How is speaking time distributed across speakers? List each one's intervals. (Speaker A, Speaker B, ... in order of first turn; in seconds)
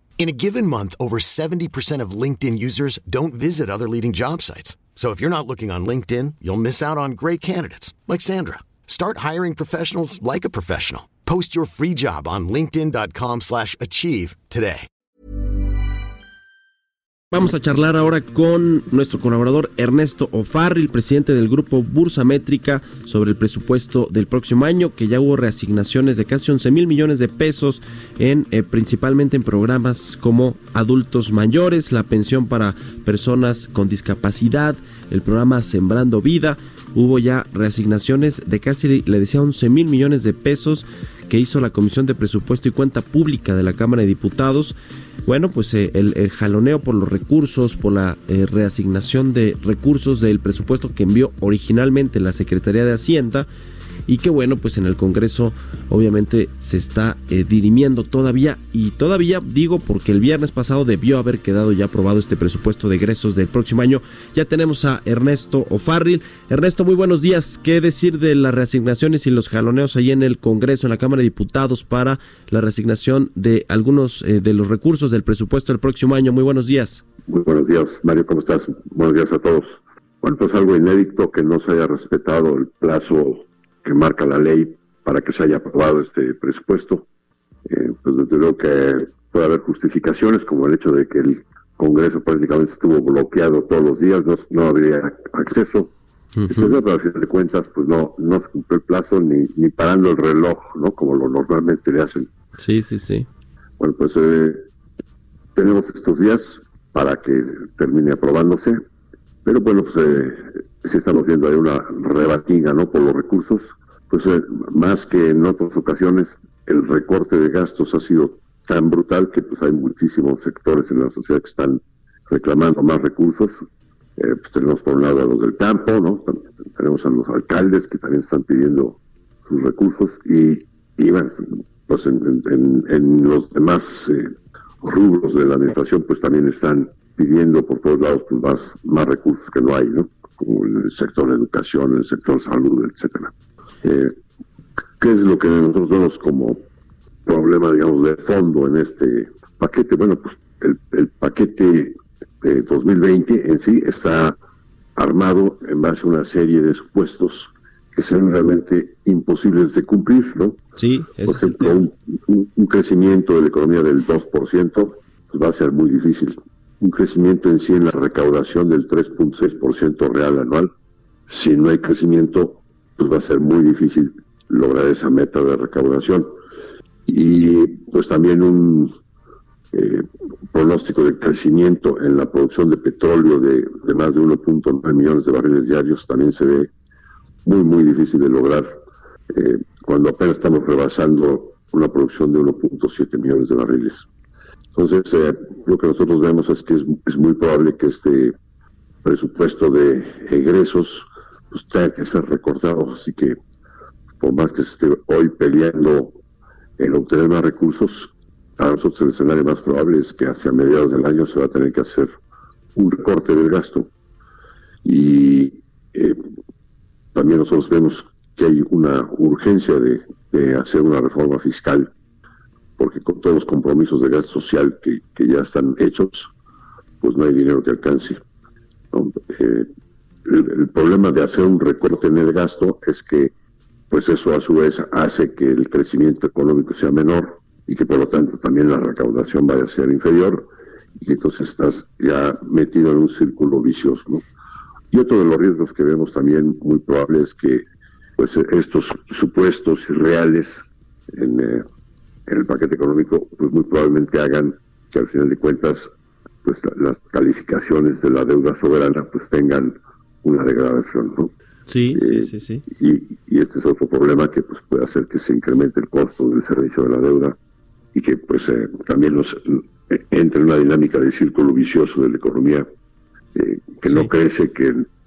Speaker A: 0.2-14.9
Speaker B: 17.3-44.8, 45.3-53.5, 54.1-77.0, 96.4-96.7, 102.6-103.3, 160.8-161.9, 261.7-262.6, 273.9-274.1
Speaker C: 77.3-87.1, 87.7-95.9, 96.5-102.3, 103.8-104.6, 105.6-108.8, 109.5-123.7, 124.2-144.1, 145.0-146.6, 147.3-154.4, 155.0-160.6, 161.3-170.7, 171.3-176.3, 177.1-178.9, 179.7-186.7, 187.4-188.7, 189.3-194.1, 194.8-198.3, 199.0-203.4, 204.2-206.2, 206.8-212.1, 212.8-213.9, 214.8-216.2, 217.2-221.9, 222.8-226.3, 227.0-228.2, 228.9-229.7, 230.3-233.3, 233.9-240.5, 241.0-244.3, 244.9-247.7, 248.2-251.6, 252.3-255.9, 256.4-261.3, 261.9-267.4, 267.9-272.7, 273.4-274.9